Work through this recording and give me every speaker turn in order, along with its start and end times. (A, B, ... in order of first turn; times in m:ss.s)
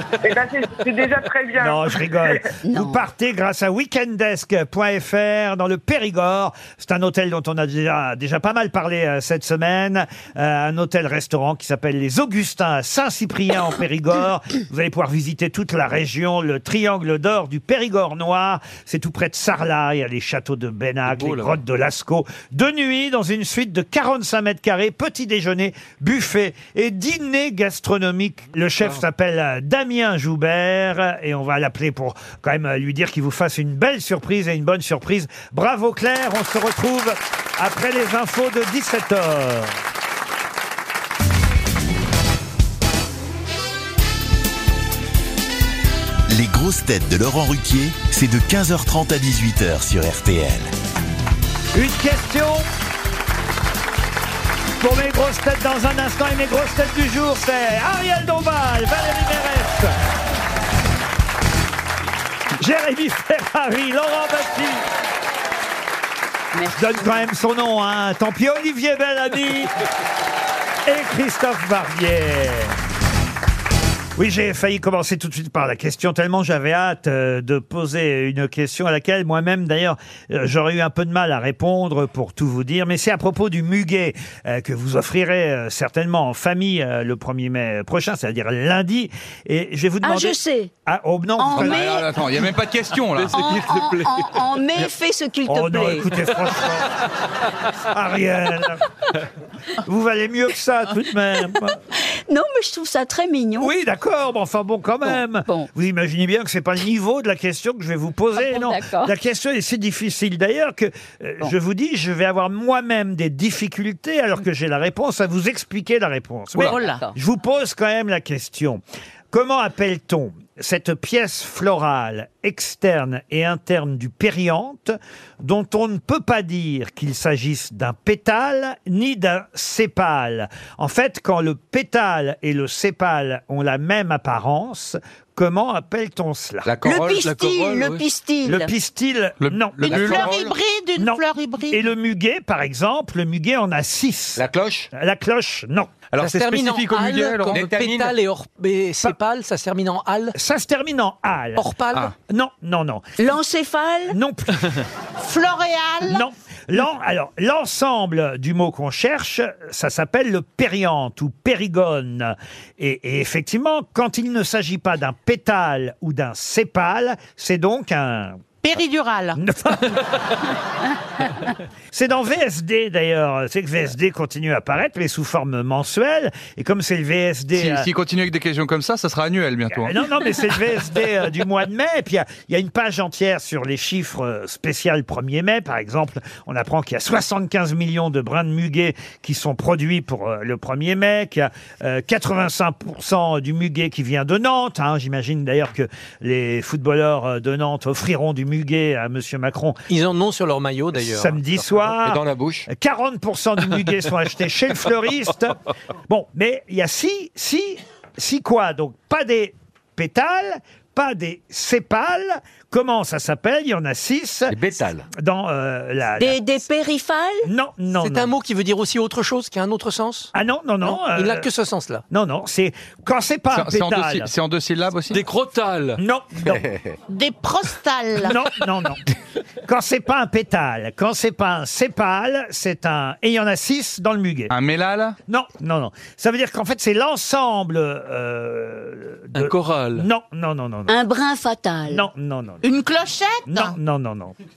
0:00.2-0:02.4 A
0:01.6-0:39.8 B
0:02.6-0:03.0 C
0:21.1-0:21.6 D
0:46.3-0:50.7 E
0:51.7-0:52.6 B
0:54.8-0:59.9 B
1:02.6-1:04.8 B
1:06.5-1:07.3 C
1:06.8-1:09.7 B
1:10.8-1:12.7 B
1:14.2-1:32.0 B
1:30.0-1:30.7 C
1:31.4-1:32.0 C
1:31.5-1:33.6 F
1:33.1-1:34.9 D
1:33.3-1:36.1 C
1:35.5-1:36.9 B
1:37.9-1:38.8 B
1:39.8-1:41.8 B
1:42.3-1:43.7 C
1:43.6-2:16.7 B
1:45.0-1:45.7 C
1:48.3-1:49.1 C
1:56.6-1:57.1 G
1:56.7-1:57.1 C
2:16.8-2:18.0 D
2:16.8-2:18.7 C
2:18.4-2:20.3 B
2:19.4-2:20.5 F
2:19.8-2:21.8 G
2:21.0-2:25.9 B
2:24.4-2:24.9 H
2:26.1-2:27.6 F
2:26.2-2:30.3 I
2:27.5-2:28.2 H
2:30.3-2:31.6 B
2:31.6-2:32.1 I
2:32.2-2:33.1 B
2:33.2-2:34.2 C
2:34.1-2:34.7 B
2:35.2-2:36.2 G
2:36.0-2:48.4 B
2:48.6-2:49.4 G
2:49.4-2:50.0 B
2:51.9-2:57.9 B
2:57.5-3:00.0 F
2:59.7-3:19.8 B
3:19.9-3:21.6 I
3:20.9-3:34.6 B
3:21.9-3:22.7 H
3:34.5-3:35.0 H
3:35.1-3:36.4 B
3:36.2-3:37.5 C
3:37.4-3:38.3 B
3:37.9-3:40.3 I
3:40.3-3:41.5 B
3:40.8-3:42.0 I
3:42.1-3:44.3 B
3:43.5-3:45.2 F
3:45.1-3:46.0 D
3:46.0-3:46.6 B
3:47.1-3:48.4 G
3:48.2-3:49.0 B
3:49.6-3:54.5 B
3:54.5-3:55.2 F
3:55.3-4:00.9 B
3:59.3-4:00.0 D
4:00.9-4:02.0 C
4:01.9-4:02.6 B
4:02.6-4:03.7 G
4:03.5-4:04.4 B